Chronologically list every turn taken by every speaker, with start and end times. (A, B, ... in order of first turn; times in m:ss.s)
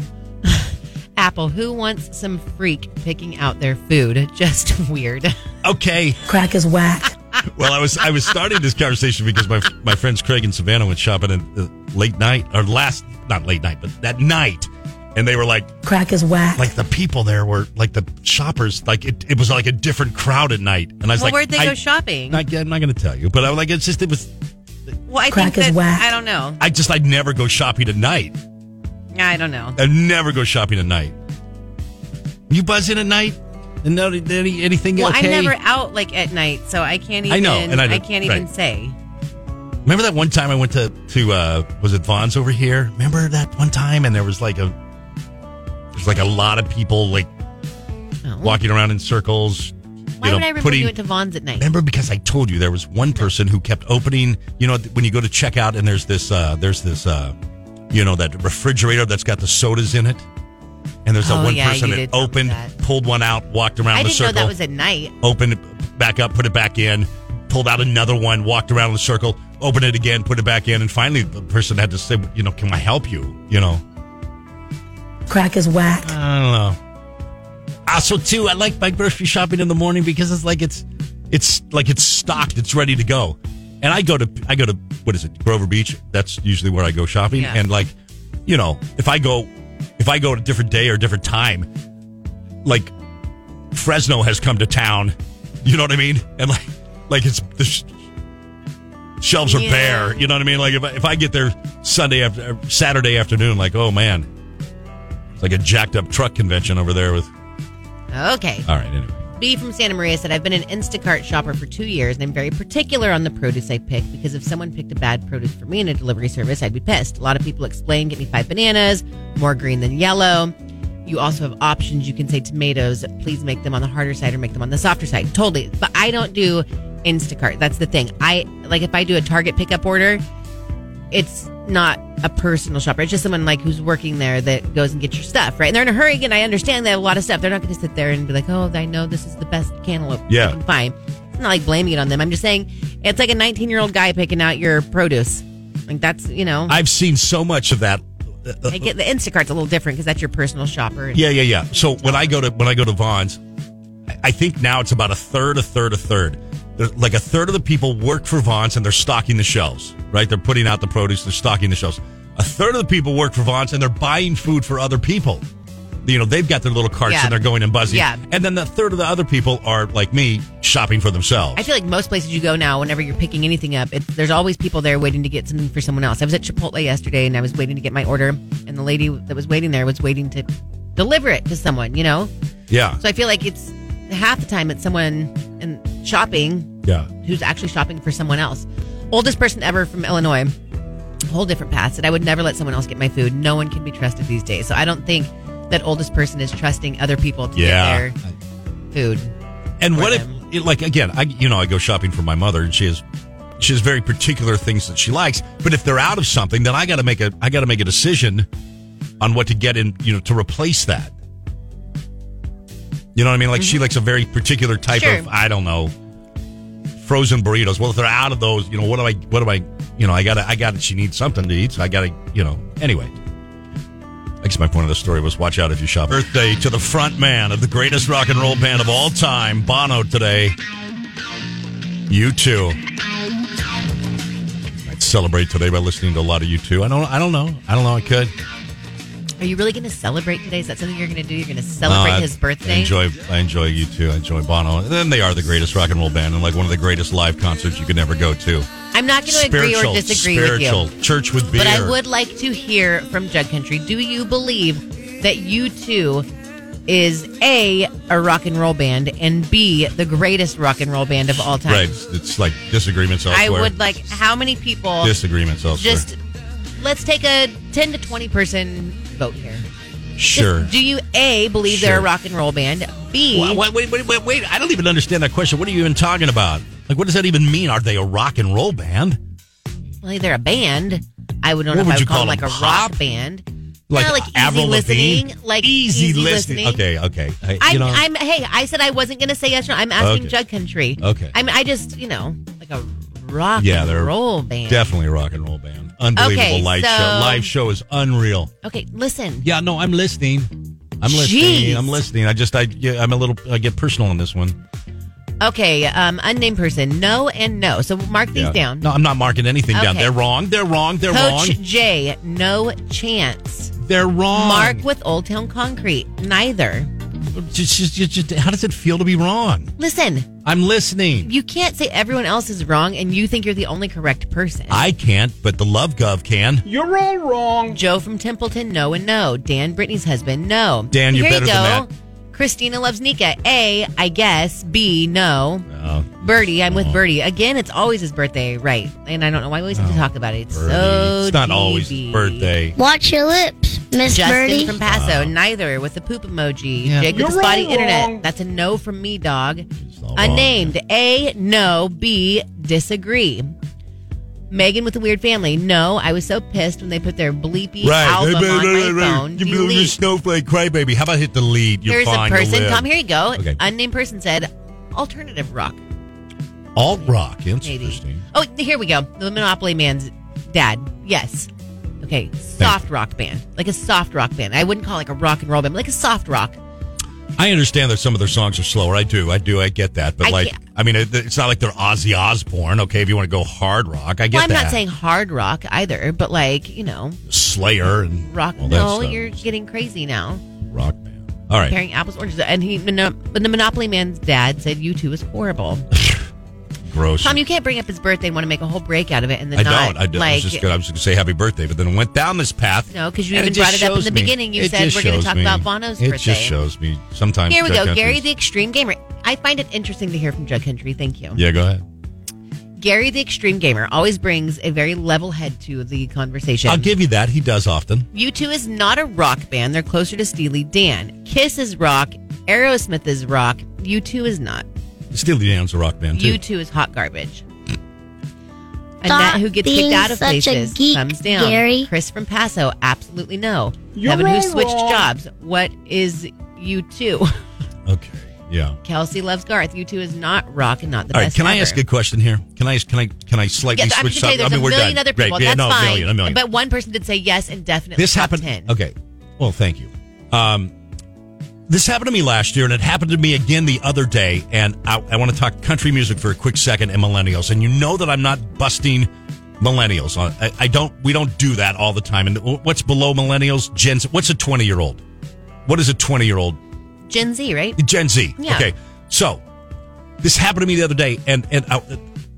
0:00.4-0:05.3 A
0:05.6-0:06.2 B
0:06.3-0:07.1 C
0:07.5-0:15.7 B
0:15.8-0:16.7 C
0:16.5-0:21.8 B
0:21.1-0:22.4 A
0:22.3-0:24.3 B
0:25.1-0:26.6 A
0:25.3-0:26.1 C
0:26.6-0:28.4 B
0:29.1-0:29.8 A
0:29.8-0:31.1 B
0:32.5-0:35.5 B
0:35.0-0:38.9 A
0:37.3-0:38.4 B
0:39.8-0:44.8 B
0:45.9-0:47.3 B
0:48.2-0:48.6 A
0:48.4-0:50.9 B
0:50.2-0:51.7 A
0:51.6-0:57.4 B
0:57.9-1:00.2 B
1:01.0-1:04.5 B
1:01.2-1:02.7 A
1:03.9-1:05.1 A
1:05.2-1:13.8 B
1:15.3-1:16.1 C
1:16.0-1:16.8 B
1:17.8-1:27.9 B
1:27.3-1:27.6 A
1:28.4-1:31.7 B
1:32.6-1:32.9 B
1:33.7-1:37.9 B
1:39.2-1:44.3 B
1:39.4-1:40.2 A
1:45.4-1:47.3 B
1:48.1-1:48.7 A
1:48.7-1:49.2 B
1:49.4-2:00.5 A
2:01.0-2:10.2 A
2:11.1-2:26.8 A
2:20.3-2:20.6 B
2:26.7-2:28.9 B
2:28.7-2:31.2 A
2:31.1-2:33.4 B
2:31.8-2:32.3 A
2:34.1-2:45.4 B
2:46.0-2:51.7 B
2:47.0-2:48.2 A
2:51.5-3:02.3 A
3:02.7-3:03.0 B
3:03.0-3:06.7 A
3:06.8-3:07.1 B
3:07.2-3:10.5 A
3:11.3-3:18.2 A
3:17.5-3:18.3 B
3:18.9-3:19.3 A
3:19.8-3:23.0 B
3:19.9-3:20.4 A
3:23.6-3:28.5 B
3:29.2-3:31.1 B
3:33.1-3:35.9 B
3:34.9-3:35.3 A
3:37.0-3:43.1 B
3:44.4-3:50.6 B
3:52.1-3:52.8 B
3:54.8-3:58.3 B
3:59.4-4:02.9 A
4:01.8-4:08.7 B
4:08.9-4:10.9 A
4:09.3-4:12.0 B
4:11.5-4:16.2 A
4:16.9-4:21.9 A
4:21.6-4:24.0 B
4:23.3-4:25.2 A
4:25.0-4:26.0 B
4:25.7-4:26.2 A
4:26.8-4:29.6 A
4:30.2-4:30.7 B
4:30.3-4:33.6 A
4:31.7-4:32.1 B
4:33.3-4:39.2 B
4:40.0-4:46.8 A
4:41.7-4:43.0 B
4:43.9-4:48.1 B
4:47.6-4:55.0 A
4:50.0-4:50.4 B
4:51.0-4:51.3 B
4:53.6-4:54.1 B
4:54.7-4:58.5 B
4:56.2-4:57.5 A
4:58.6-4:59.5 A
4:59.4-5:04.6 B
5:01.0-5:02.0 A
5:05.4-5:08.9 A
5:08.3-5:11.6 B
5:09.7-5:10.1 A
5:11.1-5:13.7 A
5:13.8-5:14.8 B
5:14.3-5:16.9 A
5:17.3-5:19.7 B
5:19.8-5:20.3 A
5:20.4-5:21.3 B
5:21.2-5:24.8 A
5:24.7-5:26.7 B
5:26.7-5:27.6 D
5:27.6-5:35.7 A
5:30.9-5:31.9 B
5:35.7-5:37.0 B
5:36.2-5:42.5 A
5:39.7-5:42.8 B
5:42.8-5:44.8 E
5:44.0-5:53.5 A
5:44.8-5:45.3 B
5:46.8-5:47.2 B
5:47.1-5:48.2 D
5:49.8-5:50.7 B
5:54.5-6:00.0 A
5:57.8-6:03.6 B
6:01.8-6:05.8 A
6:06.7-6:08.2 B
6:07.6-6:11.5 A
6:12.0-6:16.6 A
6:17.4-6:24.8 B
6:20.2-6:20.6 A
6:24.3-6:27.2 A
6:27.3-6:29.4 B
6:28.2-6:30.4 A
6:30.7-6:31.8 B
6:31.7-6:35.9 A
6:35.9-6:36.2 B
6:36.8-6:37.4 B
6:37.2-6:40.7 A
6:39.5-6:48.2 B
6:42.9-6:46.6 A
6:47.5-6:51.4 A
6:51.4-6:51.8 B
6:52.8-6:56.9 A
6:56.6-6:58.1 B
6:58.1-7:04.6 A
7:05.1-7:06.4 B
7:06.1-7:07.4 A
7:09.0-7:17.4 A
7:09.0-7:11.9 E
7:14.0-7:14.8 D
7:17.8-7:18.8 B
7:18.8-7:21.8 A
7:21.1-7:26.4 B
7:23.7-7:28.7 A
7:28.0-7:30.7 B
7:31.7-7:45.0 B
7:45.6-7:46.6 B
7:47.1-7:47.8 A
7:47.8-7:49.4 B
7:48.4-7:48.7 A
7:50.2-7:52.0 B